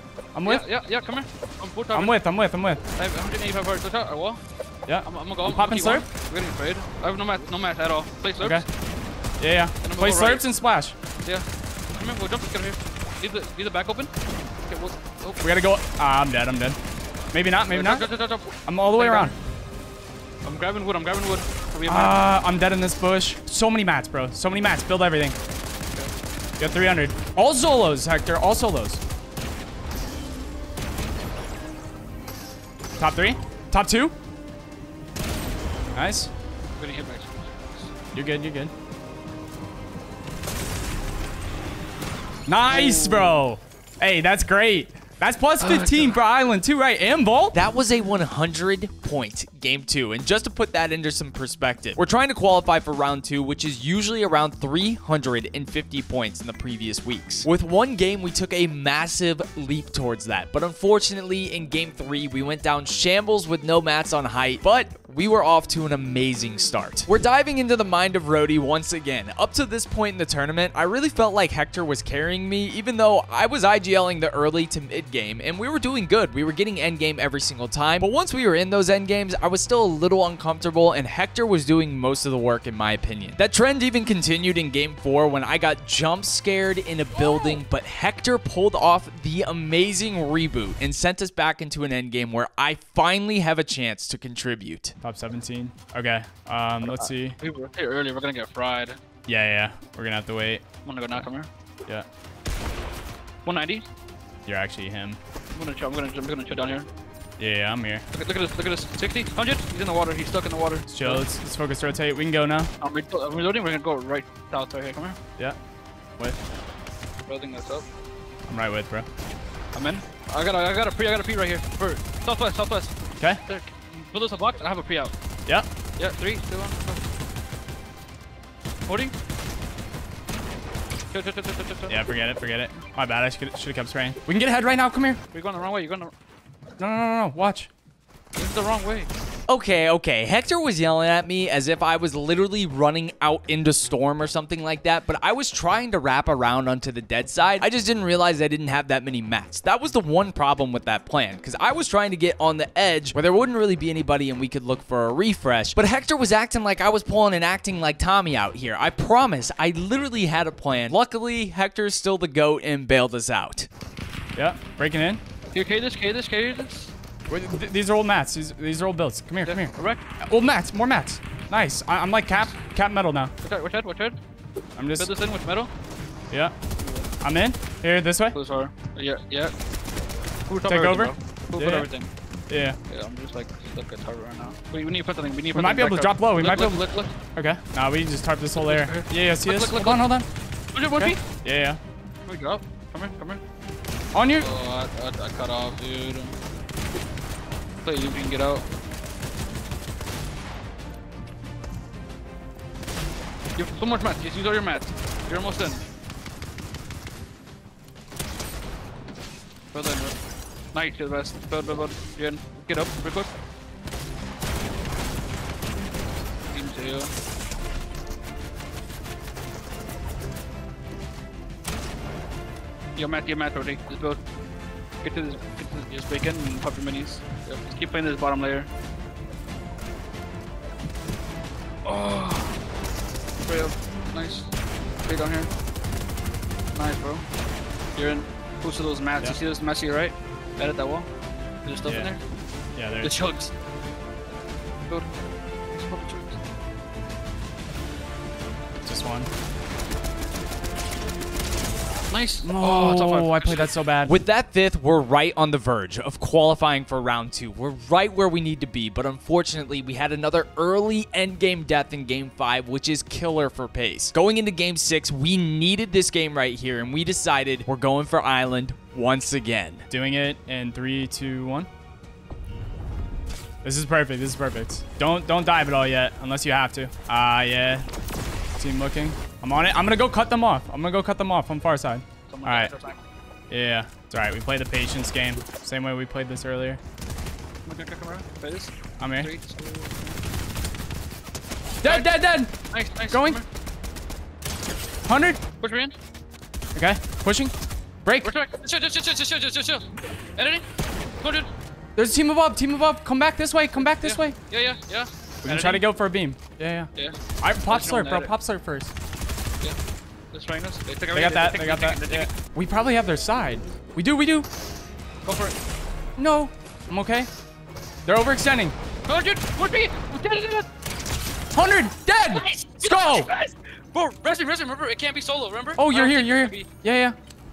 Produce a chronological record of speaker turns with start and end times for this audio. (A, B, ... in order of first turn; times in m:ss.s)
0:00.3-0:00.6 A
0:00.4-0:02.2 B
0:01.9-0:02.8 A
0:03.0-0:04.4 B
0:04.9-0:06.0 A
0:05.0-0:08.6 B
0:08.4-0:08.6 A
0:09.4-0:10.9 A
0:09.8-0:10.4 B
0:11.2-0:14.1 B
0:14.7-0:15.4 B
0:15.4-0:16.8 A
0:17.3-0:18.1 A
0:17.7-0:19.4 B
0:18.6-0:19.3 A
0:20.4-0:22.2 B
0:21.8-0:25.4 A
0:26.6-0:29.0 A
0:33.0-0:34.1 A
0:35.9-0:36.3 A
0:36.8-0:37.9 B
0:38.1-0:38.7 A
0:42.5-0:47.6 A
0:42.7-0:43.4 B
0:45.7-0:46.0 B
0:47.5-1:34.9 C
1:27.2-1:27.6 A
1:35.0-1:37.4 A
1:36.9-1:39.0 B
1:39.3-1:40.6 A
1:40.8-1:41.5 B
1:43.4-1:43.8 B
1:44.4-1:45.2 A
1:45.5-1:46.9 B
1:47.4-1:48.0 A
1:48.1-1:51.2 B
1:50.9-1:52.7 A
1:52.8-1:55.2 B
1:57.3-1:57.8 B
1:58.5-1:59.1 A
1:59.7-2:02.9 B
2:03.4-2:05.1 B
2:06.0-2:07.0 B
2:08.9-2:09.1 B
2:11.1-2:12.0 B
2:11.9-2:15.2 A
2:15.3-2:16.1 B
2:16.8-2:17.7 A
2:18.4-2:19.1 B
2:19.5-2:43.7 C
2:44.4-2:45.2 A
2:45.5-2:46.9 B
2:47.3-2:49.7 A
2:49.4-2:50.0 B
2:50.3-2:53.3 A
2:53.4-2:54.2 B
2:54.8-2:55.1 A
2:55.0-2:55.7 B
2:56.8-2:57.1 B
2:57.2-2:58.4 A
2:58.3-2:59.5 B
3:00.5-3:02.1 B
3:00.6-3:01.9 A
3:02.5-3:02.8 A
3:02.9-3:07.1 B
3:05.5-3:10.3 A
3:08.6-3:10.1 B
3:10.7-3:11.2 B
3:11.0-3:11.8 A
3:12.3-3:13.4 B
3:14.1-3:14.5 A
3:14.4-3:16.3 B
3:17.8-3:18.6 B
3:23.6-3:25.8 B
3:29.7-3:30.1 B
3:30.7-3:33.3 B
3:36.5-3:37.1 B
3:43.0-3:44.2 B
3:45.0-3:48.7 B
3:51.8-3:52.6 B
3:53.4-3:54.5 B
3:55.0-3:55.5 B
3:56.7-3:57.2 B
3:57.9-4:01.1 B
4:01.6-4:02.2 B
4:01.8-4:02.1 A
4:02.8-4:03.1 A
4:03.0-4:03.5 B
4:05.7-4:06.4 B
4:08.8-4:09.3 A
4:12.1-4:13.7 B
4:12.4-4:14.2 A
4:14.0-4:29.8 C
4:29.9-4:31.7 A
4:33.6-4:37.8 A
4:38.6-4:42.7 A
4:42.3-4:43.0 B
4:43.5-4:46.8 A
4:47.6-4:50.2 B
4:49.0-4:49.3 A
4:51.8-4:52.2 B
4:51.8-4:52.5 A
4:52.7-4:53.4 B
4:53.1-4:53.4 A
4:55.0-4:55.4 A
4:55.6-4:55.9 B
4:56.7-4:57.5 A
4:58.0-4:58.3 A
4:58.2-5:00.6 B
5:01.2-5:01.5 B
5:02.0-5:04.4 A
5:03.8-5:05.9 B
5:05.4-5:08.9 A
5:06.9-5:08.3 B
5:10.3-5:12.4 B
5:11.1-5:14.5 A
5:15.2-5:15.5 B
5:16.2-5:17.3 A
5:18.0-5:18.7 A
5:19.1-5:20.6 B
5:21.5-5:23.3 A
5:22.3-5:26.7 B
5:25.8-5:27.2 A